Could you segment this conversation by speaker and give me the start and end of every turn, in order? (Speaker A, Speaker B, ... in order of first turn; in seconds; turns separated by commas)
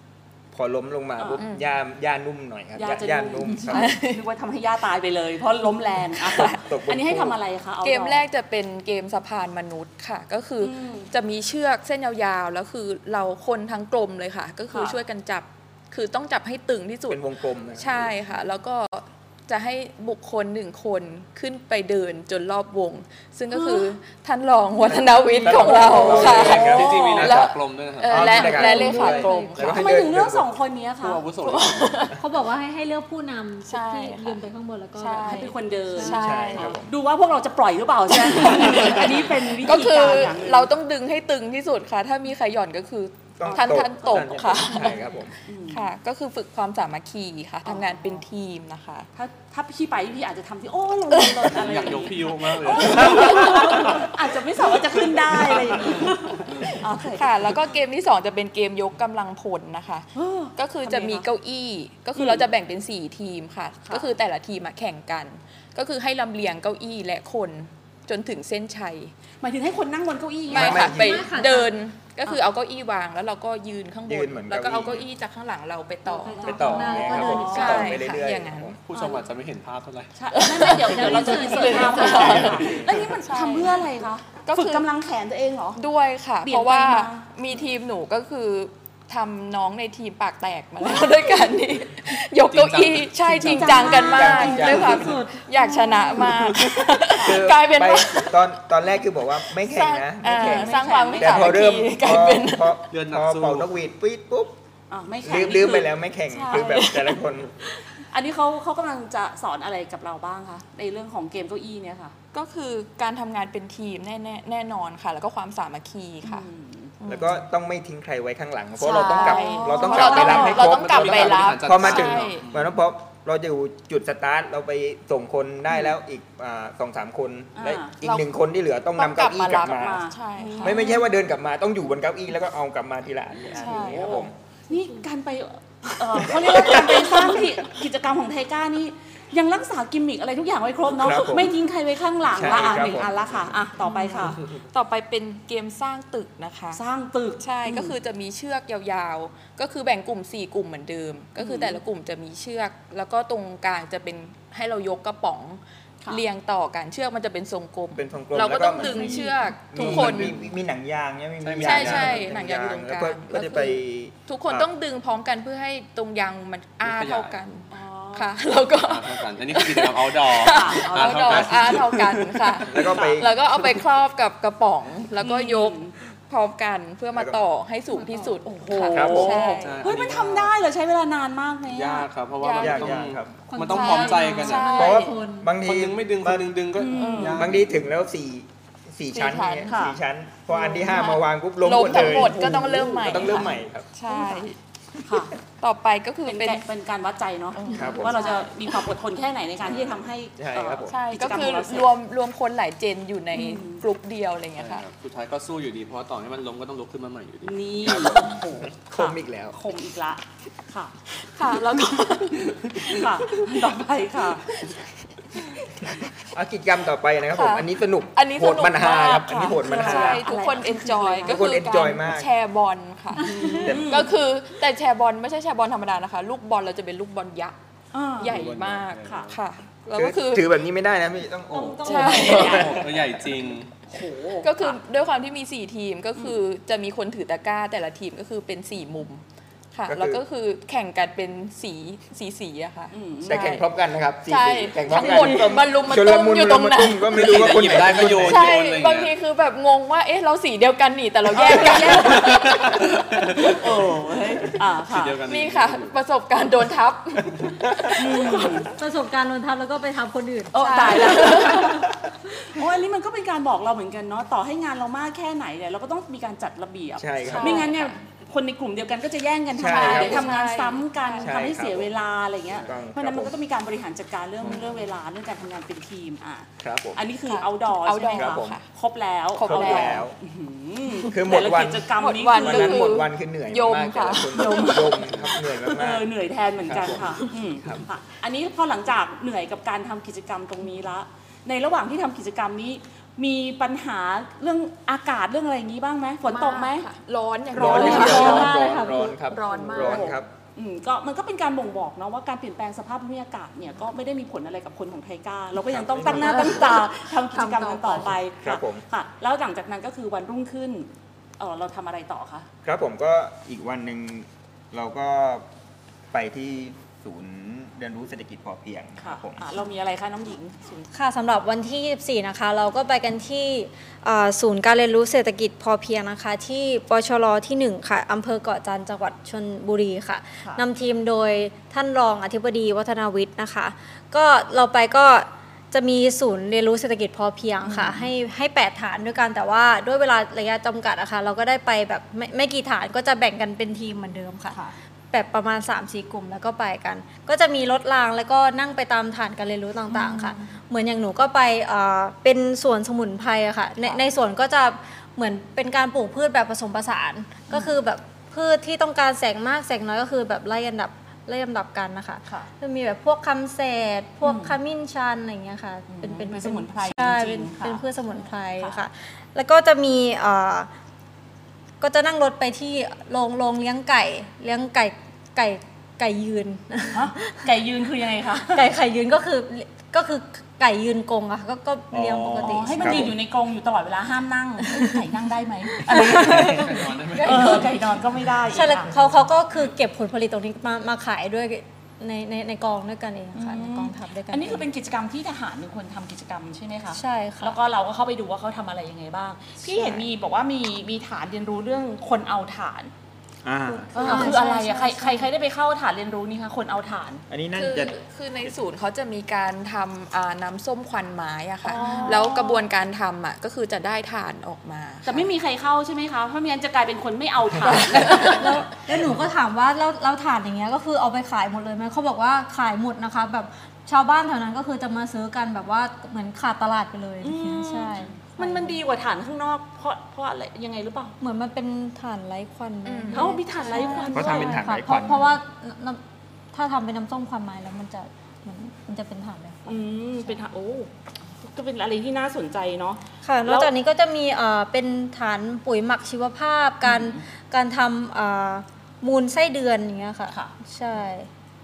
Speaker A: 0.5-4.0, Speaker B: 1.2-1.4, Speaker C: 1.4-1.6, Speaker B: 2.8-8.2, Speaker C: 3.7-4.2, Speaker A: 6.3-7.4, Speaker C: 7.8-29.8, Speaker B: 10.6-11.1, Speaker B: 14.7-15.0, Speaker A: 17.1-18.1, Speaker B: 23.5-23.9, Speaker A: 24.9-27.6, Speaker B: 25.5-27.3, Speaker D: 25.8-29.8, Speaker A: 28.1-30.5, Speaker E: 28.6-29.6, Speaker B: 29.6-31.2, Speaker D: 31.0-32.1, Speaker C: 31.4-32.2, Speaker E: 32.1-35.5, Speaker C: 33.7-34.4, Speaker C: 35.0-36.8, Speaker B: 35.2-40.7, Speaker A: 36.1-36.9, Speaker C: 38.2-45.0, Speaker A: 43.4-45.3, Speaker B: 45.5-45.9, Speaker C: 45.7-49.1, Speaker B: 47.6-48.2, Speaker B: 49.1-57.6, Speaker C: 51.1-51.5, Speaker D: 51.5-54.1, Speaker C: 53.0-54.0, Speaker C: 57.1-69.1, Speaker B: 60.1-61.3, Speaker B: 62.1-62.5, Speaker B: 69.4-71.1, Speaker A: 70.5-71.3, Speaker C: 70.5-78.8, Speaker E: 70.9-71.8, Speaker A: 74.1-75.0, Speaker E: 76.1-78.2, Speaker A: 76.4-78.8, Speaker B: 76.5-77.9, Speaker D: 78.8-81.2, Speaker B: 78.9-79.2, Speaker B: 80.2-85.8, Speaker C: 80.3-83.8, Speaker E: 80.8-82.6, Speaker D: 82.4-82.9, Speaker C: 84.5-84.9, Speaker C: 85.8-98.4, Speaker B: 86.4-87.2, Speaker D: 92.5-94.0, Speaker B: 93.5-95.0, Speaker E: 93.7-96.1, Speaker A: 93.9-95.2, Speaker D: 96.4-96.8, Speaker B: 97.1-97.5, Speaker A: 97.2-104.5, Speaker C: 99.5-102.8, Speaker B: 100.2-101.9, Speaker D: 102.9-103.7, Speaker B: 104.9-106.0, Speaker A: 105.2-107.5, Speaker C: 106.3-107.2, Speaker B: 108.1-112.2, Speaker C: 112.3-116.5, Speaker B: 116.2-117.0, Speaker C: 117.0-117.4, Speaker A: 117.0-130.0, Speaker B: 118.8-120.7, Speaker C: 118.8-122.5, Speaker D: 119.9-122.8, Speaker B: 127.6-127.9, Speaker C: 128.0-128.3, Speaker C: 129.0-131.0, Speaker B: 129.7-131.1, Speaker A: 130.6-134.3, Speaker C: 133.5-134.3, Speaker B: 133.8-144.5, Speaker A: 136.2-137.1, Speaker A: 140.9-141.6, Speaker A: 142.3-143.3, Speaker C: 143.8-146.8, Speaker B: 146.7-147.9, Speaker C: 147.4-160.3, Speaker B: 151.4-151.8, Speaker A: 158.0-164.7, Speaker E: 158.8-159.3, Speaker D: 159.8-160.5, Speaker D: 161.4-162.3, Speaker C: 161.6-179.8, Speaker D: 166.8-167.4, Speaker B: 167.7-168.3, Speaker D: 168.8-173.0, Speaker B: 170.4-171.8, Speaker A: 172.7-173.3, Speaker B: 172.9-173.3, Speaker B: 175.2-175.9, Speaker E: 177.9-178.4, Speaker B: 178.4-182.1, Speaker A: 178.9-179.5, Speaker D: 179.6-180.5, Speaker D: 181.7-184.8, Speaker C: 182.4-183.0, Speaker A: 182.6-183.4, Speaker E: 183.5-185.5, Speaker C: 183.6-185.2, Speaker A: 184.7-186.5, Speaker D: 185.6-187.9, Speaker B: 186.8-187.5, Speaker C: 186.8-187.5, Speaker A: 187.3-193.9, Speaker C: 189.1-189.8, Speaker B: 189.7-190.0, Speaker B: 190.5-191.2, Speaker C: 190.6-194.6, Speaker B: 192.2-193.5, Speaker B: 194.1-194.5, Speaker B: 195.1-195.4, Speaker C: 195.6-196.6, Speaker B: 196.3-201.9, Speaker C: 197.6-198.4, Speaker A: 197.7-198.2, Speaker D: 199.7-200.0, Speaker A: 200.4-200.9, Speaker C: 200.9-204.8, Speaker B: 203.3-203.8, Speaker D: 204.6-208.2, Speaker B: 207.4-210.9, Speaker A: 207.9-209.6, Speaker C: 211.3-213.1, Speaker B: 212.8-214.5, Speaker A: 216.3-220.2, Speaker C: 217.3-227.6, Speaker B: 219.6-221.4, Speaker A: 221.2-222.3, Speaker B: 223.2-224.1, Speaker A: 223.5-224.1, Speaker B: 227.9-228.4, Speaker C: 228.2-230.5, Speaker D: 228.2-229.4, Speaker B: 229.0-229.3, Speaker A: 229.9-232.9, Speaker B: 231.5-232.9, Speaker C: 231.8-232.8, Speaker D: 232.1-233.7, Speaker B: 233.9-234.8, Speaker C: 234.4-239.2, Speaker C: 239.7-243.6, Speaker A: 239.9-240.2, Speaker B: 242.9-243.6, Speaker A: 243.2-248.5, Speaker C: 244.3-247.2, Speaker B: 245.1-245.3, Speaker D: 247.1-249.1, Speaker C: 248.2-253.0, Speaker B: 251.3-255.2, Speaker D: 251.7-253.9, Speaker D: 254.8-256.0, Speaker C: 255.2-258.6, Speaker D: 257.4-257.9, Speaker B: 257.9-258.7, Speaker E: 258.8-261.9, Speaker B: 260.5-282.9, Speaker C: 260.6-261.8, Speaker A: 267.0-267.7, Speaker C: 267.3-267.9, Speaker A: 269.6-270.3, Speaker C: 269.7-271.3, Speaker A: 271.2-271.9, Speaker A: 272.6-273.3, Speaker A: 276.6-277.0, Speaker C: 277.3-278.6, Speaker A: 278.1-278.6, Speaker C: 279.4-280.1, Speaker A: 279.5-280.2, Speaker A: 281.0-286.1, Speaker C: 282.0-285.3, Speaker B: 284.3-296.9, Speaker A: 286.6-287.8, Speaker C: 296.3-300.2, Speaker A: 297.5-300.3, Speaker B: 297.5-312.5, Speaker E: 297.8-299.1, Speaker A: 305.6-306.7, Speaker C: 306.1-308.1, Speaker A: 308.4-308.8, Speaker A: 312.6-315.5, Speaker A: 316.1-319.4, Speaker B: 319.0-320.9, Speaker E: 320.9-344.6, Speaker B: 337.6-338.1, Speaker E: 345.1-370.7, Speaker B: 349.9-350.5, Speaker B: 364.2-364.6, Speaker B: 365.9-368.8, Speaker E: 371.8-377.4, Speaker B: 376.9-378.7, Speaker E: 378.5-383.1, Speaker D: 381.9-382.5, Speaker B: 382.4-389.0, Speaker A: 382.8-383.1, Speaker E: 384.7-385.0, Speaker E: 385.7-387.6, Speaker D: 386.1-387.8, Speaker E: 388.4-394.7, Speaker B: 393.4-402.9, Speaker E: 396.9-397.6, Speaker E: 399.6-400.1, Speaker A: 403.4-404.3, Speaker E: 403.9-405.3, Speaker B: 403.9-407.2, Speaker C: 404.0-404.4, Speaker A: 407.3-407.9, Speaker C: 407.5-415.3, Speaker B: 411.6-412.6, Speaker E: 411.7-412.3, Speaker B: 415.1-418.7, Speaker C: 417.9-418.4, Speaker E: 418.0-428.8, Speaker B: 427.2-431.1, Speaker E: 431.2-436.0, Speaker C: 432.9-434.1, Speaker B: 433.1-434.7, Speaker A: 434.1-435.4, Speaker E: 436.5-440.3, Speaker B: 439.7-443.7, Speaker E: 443.2-451.3, Speaker B: 446.8-447.2